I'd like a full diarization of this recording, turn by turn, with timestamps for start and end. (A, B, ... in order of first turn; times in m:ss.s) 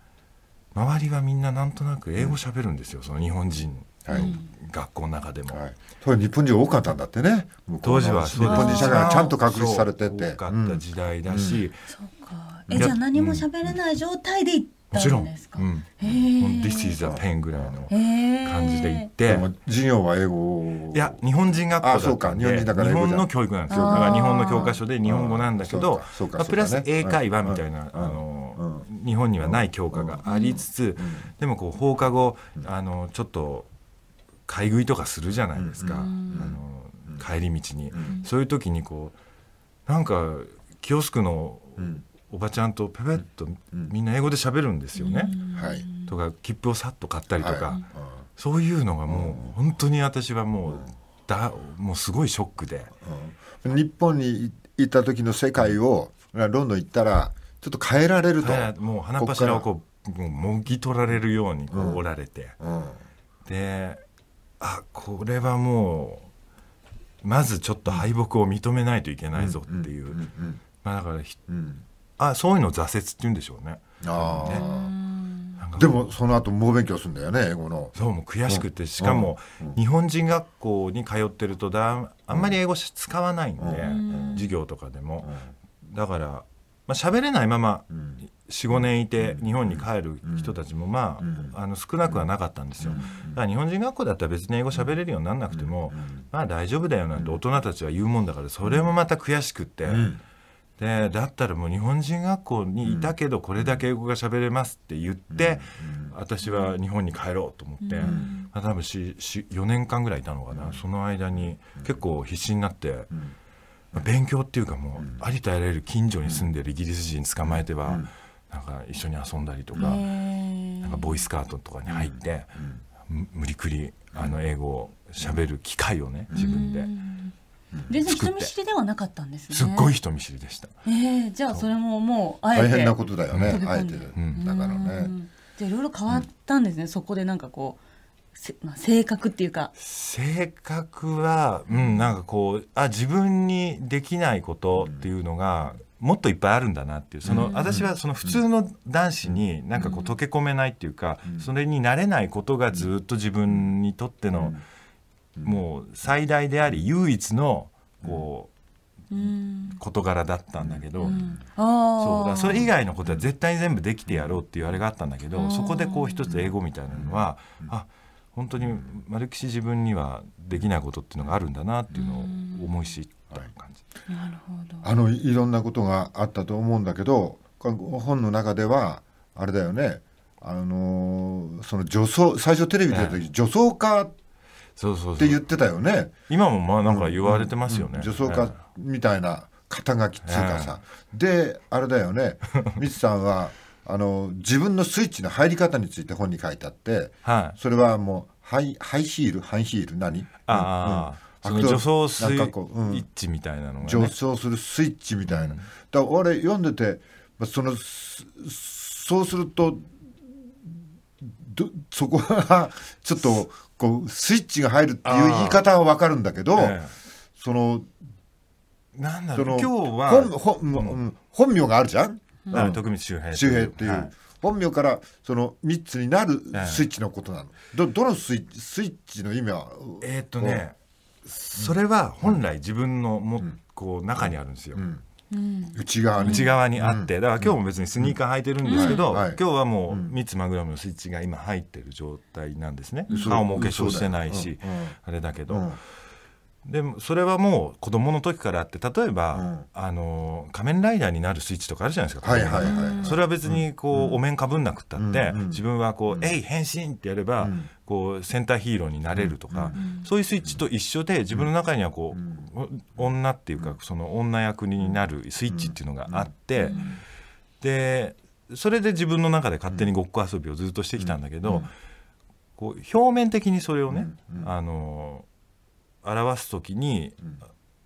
0:00.7-0:05.6 A
0:04.0-0:04.3 B
0:04.1-0:04.4 C
0:05.5-0:11.6 B
0:07.8-0:11.8 A
0:08.4-0:09.1 C
0:11.9-0:17.0 C
0:12.7-0:13.0 B
0:12.7-0:13.5 A
0:14.9-0:19.5 A
0:17.0-0:17.8 B
0:17.9-0:19.1 C
0:19.2-0:21.2 B
0:20.9-0:33.7 A
0:21.8-0:28.8 B
0:23.7-0:24.8 C
0:29.4-0:30.2 B
0:30.2-0:30.6 C
0:31.0-0:31.3 B
0:34.5-0:39.1 A
0:35.5-0:36.6 B
0:35.9-0:36.5 C
0:37.9-0:38.2 B
0:39.8-0:45.4 A
0:41.8-0:42.0 B
0:45.0-0:46.1 C
0:45.5-0:45.9 B
0:46.0-0:52.9 A
0:47.4-0:48.2 B
0:49.1-0:49.5 B
0:53.0-0:59.7 B
0:58.4-1:02.6 A
1:01.7-1:02.0 B
1:02.6-1:03.0 B
1:03.4-1:04.0 A
1:04.6-1:06.2 A
1:07.2-1:10.2 A
1:09.3-1:10.6 B
1:10.8-1:11.4 A
1:11.5-1:11.8 B
1:12.2-1:14.6 A
1:14.0-1:14.9 B
1:14.4-1:15.6 C
1:15.6-1:16.1 A
1:15.8-1:17.9 B
1:17.9-1:25.3 A
1:18.4-1:19.8 B
1:23.6-1:24.5 B
1:23.8-1:24.5 C
1:25.2-1:25.5 B
1:25.8-1:40.2 A
1:27.9-1:28.2 B
1:28.7-1:30.5 B
1:31.2-1:32.3 B
1:32.8-1:33.4 B
1:35.5-1:36.2 B
1:37.1-1:37.4 B
1:38.6-1:39.0 B
1:39.8-1:40.2 B
1:40.8-1:53.1 A
1:42.8-1:43.9 B
1:45.3-1:46.1 B
1:46.4-1:46.8 C
1:47.8-1:48.5 C
1:48.0-1:48.3 B
1:50.5-1:50.8 B
1:51.3-1:52.0 B
1:53.9-2:00.0 A
1:55.0-1:55.2 B
1:57.4-1:58.1 B
1:59.8-2:01.2 C
2:00.8-2:06.9 A
2:01.9-2:02.8 B
2:06.3-2:06.6 B
2:06.3-2:07.3 C
2:07.9-2:09.9 C
2:08.0-2:08.5 A
2:09.5-2:10.8 A
2:10.8-2:17.8 C
2:12.5-2:15.1 B
2:13.3-2:13.6 A
2:14.1-2:14.4 A
2:18.3-2:19.7 C
2:19.8-2:34.6 A
2:24.8-2:25.1 B
2:27.2-2:28.4 B
2:27.3-2:27.8 C
2:29.8-2:30.1 C
2:33.5-2:33.7 B
2:34.3-2:34.6 B
2:35.4-2:35.6 B
2:35.4-2:38.5 A
2:39.1-2:39.8 C
2:39.8-2:41.2 A
2:40.6-2:41.4 B
2:41.0-2:42.7 C
2:42.0-2:53.8 A
2:43.0-2:43.3 B
2:44.1-2:44.8 B
2:45.3-2:46.4 C
2:46.5-2:47.7 B
2:48.6-2:48.9 B
2:51.9-2:52.7 C
2:54.1-2:54.9 C
2:54.8-3:04.1 B
3:02.9-3:03.2 A
3:04.8-3:05.4 A
3:05.2-3:06.1 B
3:06.3-3:08.6 A
3:06.8-3:23.0 B
3:10.2-3:10.8 A
3:17.2-3:17.6 A
3:20.5-3:24.1 A
3:23.8-3:29.9 B
3:25.3-3:25.7 A
3:31.2-3:36.8 B
3:35.0-3:35.6 A
3:36.5-3:36.9 A
3:37.4-3:37.9 B
3:38.9-3:41.0 A
3:39.3-3:50.6 B
3:42.5-3:44.1 A
3:46.5-3:46.9 A
3:50.0-3:50.7 A
3:51.2-3:54.8 A
3:51.6-3:52.4 B
3:54.2-3:55.0 B
3:55.3-3:56.6 C
3:55.7-4:00.1 B
3:56.2-4:05.8 A
3:58.6-3:59.0 C
4:03.1-4:03.4 C
4:03.1-4:04.9 B
4:05.5-4:05.8 B
4:06.6-4:26.9 A
4:09.3-4:09.7 B
4:12.2-4:14.2 B
4:12.6-4:13.2 C
4:15.0-4:16.4 B
4:17.4-4:17.7 B
4:19.1-4:19.9 B
4:19.7-4:20.1 C
4:22.1-4:22.5 B
4:24.8-4:26.9 B
4:26.6-4:27.0 C
4:27.6-4:31.7 A
4:31.0-4:31.7 B
4:32.6-4:35.2 A
4:33.9-4:34.5 B
4:36.0-4:37.3 A